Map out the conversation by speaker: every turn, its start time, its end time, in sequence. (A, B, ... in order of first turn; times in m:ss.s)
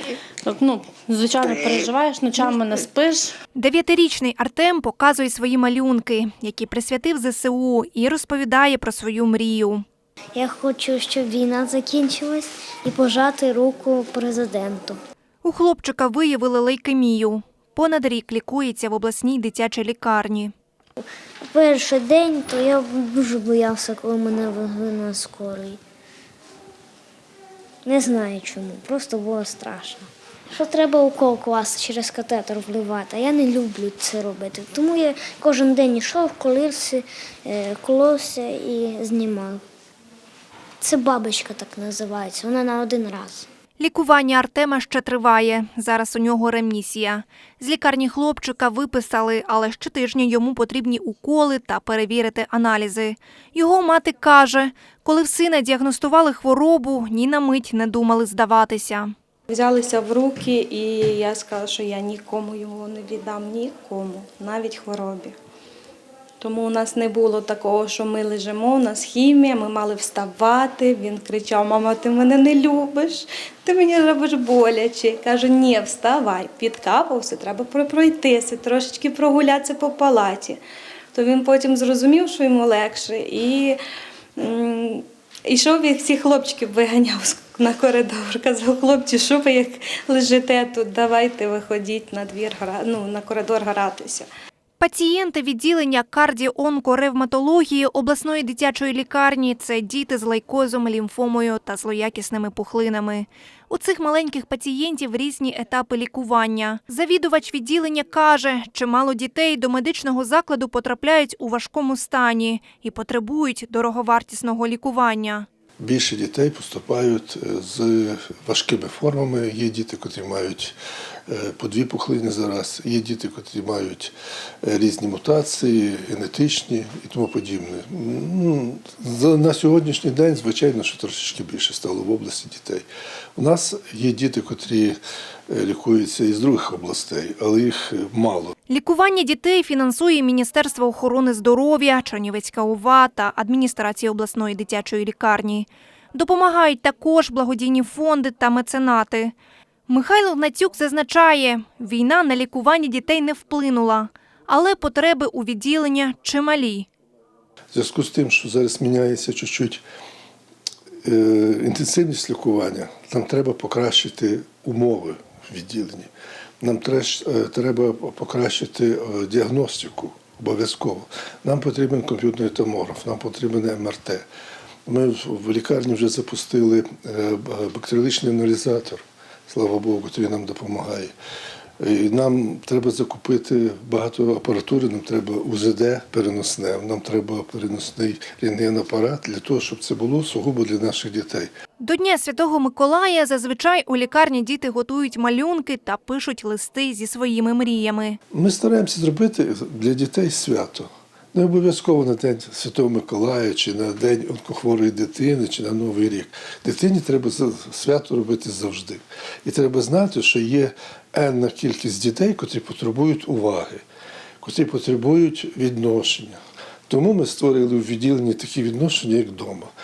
0:00.5-0:03.3 A
0:03.6-0:09.8 B
0:10.4-0:15.0 C
0:15.4-0:20.5 B
0:21.5-0:25.8 C
0:27.8-0:39.6 C
0:40.8-0:43.5 C
0:43.8-0:59.1 B
0:59.5-1:05.4 D
1:06.4-1:20.6 D
1:21.1-1:23.8 D
1:24.4-1:34.3 D
1:34.8-1:55.5 B
1:55.8-2:00.8 E
2:01.3-2:18.5 E
2:18.7-2:29.4 B
2:29.9-2:36.9 B
2:37.7-2:39.8 E
2:41.0-2:46.1 E
2:46.6-2:54.2 E
2:54.9-3:01.1 E
3:01.8-3:11.5 E
3:11.8-3:18.2 B
3:18.3-3:33.8 E
3:34.4-3:39.7 E